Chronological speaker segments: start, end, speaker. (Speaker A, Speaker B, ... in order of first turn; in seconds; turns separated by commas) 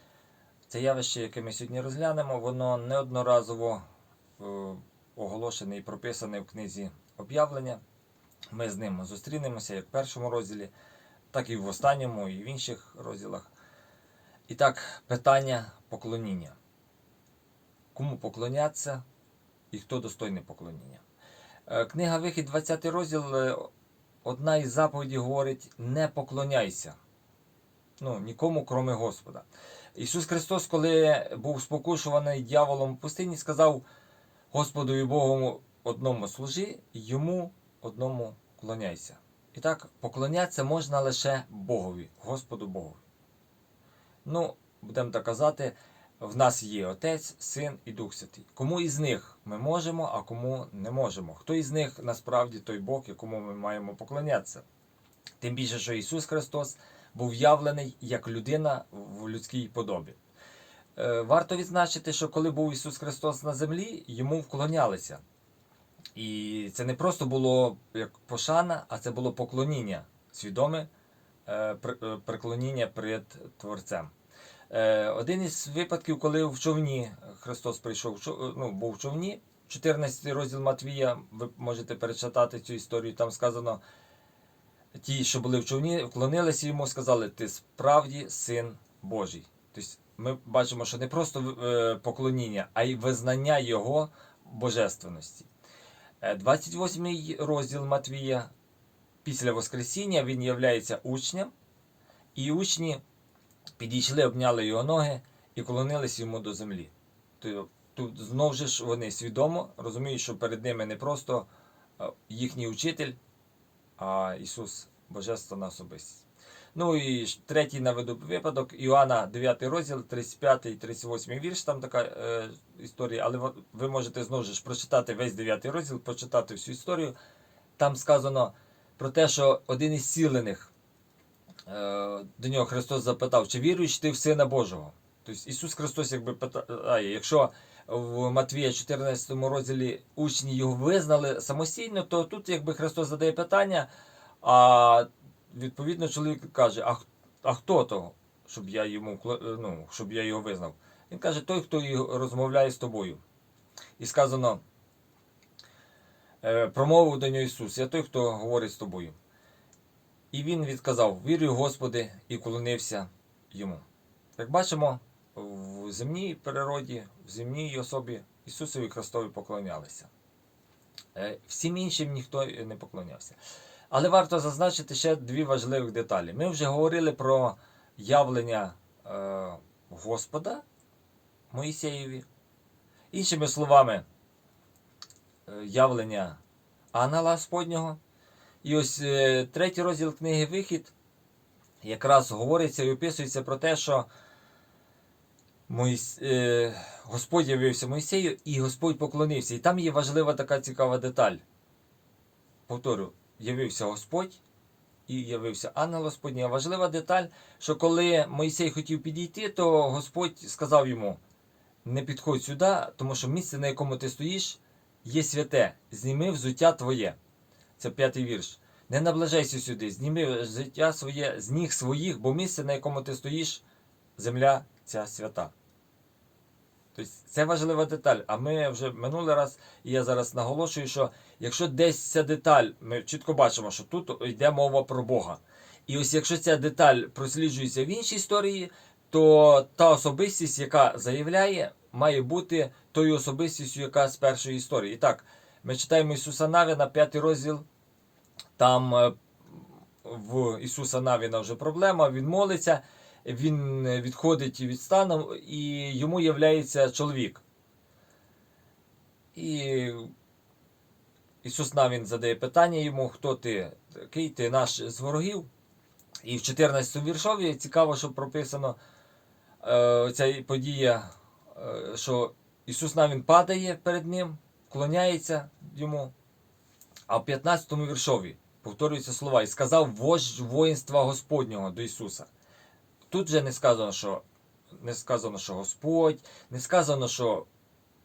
Speaker A: 0.7-3.8, Speaker A: 4.4-7.8, Speaker A: 8.5-10.7, Speaker A: 11.3-13.5, Speaker A: 14.5-16.6, Speaker A: 17.9-19.0, Speaker A: 19.7-21.0, Speaker A: 21.7-23.7, Speaker A: 24.2-27.0, Speaker A: 28.0-33.8, Speaker A: 34.5-43.0, Speaker A: 44.2-54.6, Speaker A: 55.4-60.2, Speaker A: 61.0-65.2, Speaker A: 66.2-70.9, Speaker A: 71.5-74.1, Speaker A: 74.7-83.8, Speaker A: 85.0-95.5, Speaker A: 96.2-98.5, Speaker A: 99.2-101.5, Speaker A: 102.3-103.0, Speaker A: 103.8-111.5, Speaker A: 112.0-113.2, Speaker A: 114.0-127.2, Speaker A: 127.8-130.7, Speaker A: 131.7-143.9, Speaker A: 144.4-153.2, Speaker A: 154.0-154.6, Speaker A: 156.4-159.2, Speaker A: 160.3-163.8, Speaker A: 164.4-170.1, Speaker A: 171.2-173.4, Speaker A: 173.9-180.6, Speaker A: 181.5-182.2, Speaker A: 183.1-184.1, Speaker A: 185.5-186.4, Speaker A: 186.9-188.0, Speaker A: 188.6-190.9, Speaker A: 191.8-194.1, Speaker A: 195.7-201.4, Speaker A: 202.7-204.4, Speaker A: 205.1-211.2, Speaker A: 211.8-217.2, Speaker A: 217.8-223.6, Speaker A: 224.2-225.5, Speaker A: 226.9-247.7, Speaker A: 248.6-257.4, Speaker A: 259.4-260.1, Speaker A: 261.4-265.5, Speaker A: 266.2-268.8, Speaker A: 269.6-276.1, Speaker A: 277.1-282.3, Speaker A: 283.1-284.2, Speaker A: 284.8-287.5